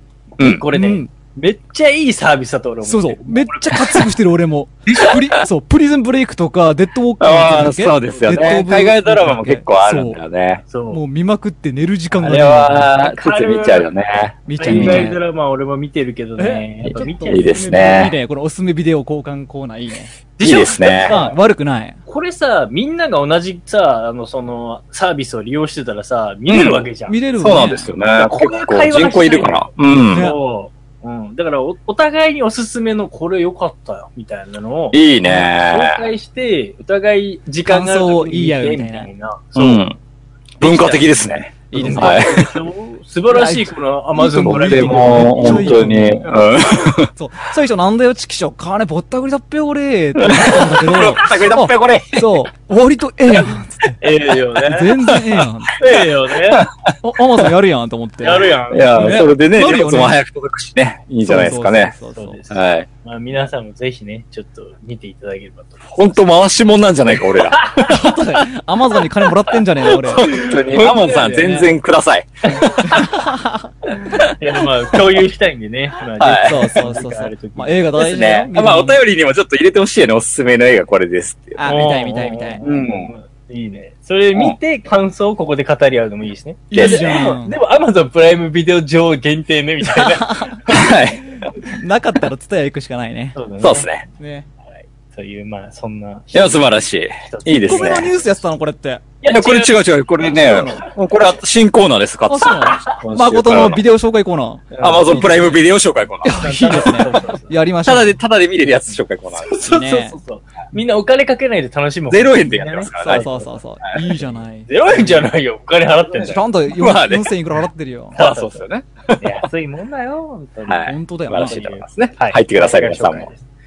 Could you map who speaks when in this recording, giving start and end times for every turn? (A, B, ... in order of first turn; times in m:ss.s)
0:00.4-0:04.1 A
0:00.4-0:00.6 B
0:00.7-0:01.1 C
0:02.8-0:10.2 C
0:04.9-0:05.2 A
0:07.2-0:10.6 B
0:10.7-0:11.0 A
0:10.9-0:12.9 C
0:12.2-0:15.1 B
0:13.0-0:13.9 A
0:14.5-0:15.2 C
0:14.6-0:17.6 A
0:16.4-0:20.1 C
0:17.3-0:18.1 B
0:20.4-0:21.4 A
0:20.4-0:21.2 B
0:21.0-0:22.0 C
0:22.1-0:39.9 A
0:26.5-0:26.9 B
0:27.1-0:27.9 C
0:27.4-0:30.3 B
0:30.1-0:30.4 C
0:34.9-0:36.0 B
0:37.7-0:39.1 C
0:39.6-0:40.0 B
0:40.6-0:42.6 B
0:40.6-0:46.4 A
0:41.7-0:42.4 C
0:43.3-0:46.2 C
0:44.4-0:47.1 B
0:47.1-0:54.0 C
0:50.2-0:52.4 B
0:54.0-0:54.9 A
0:54.6-0:55.8 C
0:55.1-0:55.9 B
0:55.8-0:56.7 A
0:56.5-0:57.5 B
0:57.0-1:00.2 C
0:58.2-0:59.3 A
0:58.7-1:01.9 B
1:01.3-1:02.4 C
1:02.1-1:06.2 A
1:02.5-1:02.9 B
1:05.9-1:08.0 B
1:07.2-1:07.9 A
1:07.8-1:10.3 C
1:09.9-1:13.0 B
1:10.1-1:11.7 A
1:12.5-1:13.1 A
1:12.8-1:13.7 C
1:13.9-1:18.0 A
1:16.2-1:16.6 B
1:16.4-1:19.0 C
1:18.0-1:21.7 B
1:21.6-1:22.6 C
1:21.7-1:30.9 A
1:22.6-1:23.1 B
1:26.7-1:27.6 C
1:26.7-1:27.2 B
1:29.9-1:30.6 C
1:30.7-1:31.4 B
1:31.6-1:33.4 C
1:33.4-1:33.9 A
1:33.6-1:34.0 B
1:34.2-1:34.5 C
1:35.1-1:38.4 A
1:36.3-1:38.1 B
1:37.6-1:39.1 C
1:39.2-1:40.9 A
1:39.3-1:43.8 B
1:42.3-1:45.5 C
1:44.7-1:45.3 A
1:44.8-1:46.4 B
1:46.2-1:48.2 C
1:46.4-1:47.5 A
1:47.8-1:49.6 B
1:49.4-1:53.6 A
1:49.7-1:50.2 C
1:52.1-1:53.3 B
1:53.0-1:55.3 C
1:54.6-1:56.4 A
1:56.2-1:58.2 C
1:56.7-1:57.3 B
1:58.2-1:58.6 A
1:58.2-1:59.4 B
1:59.2-2:03.4 A
2:00.7-2:03.3 B
2:00.8-2:01.6 C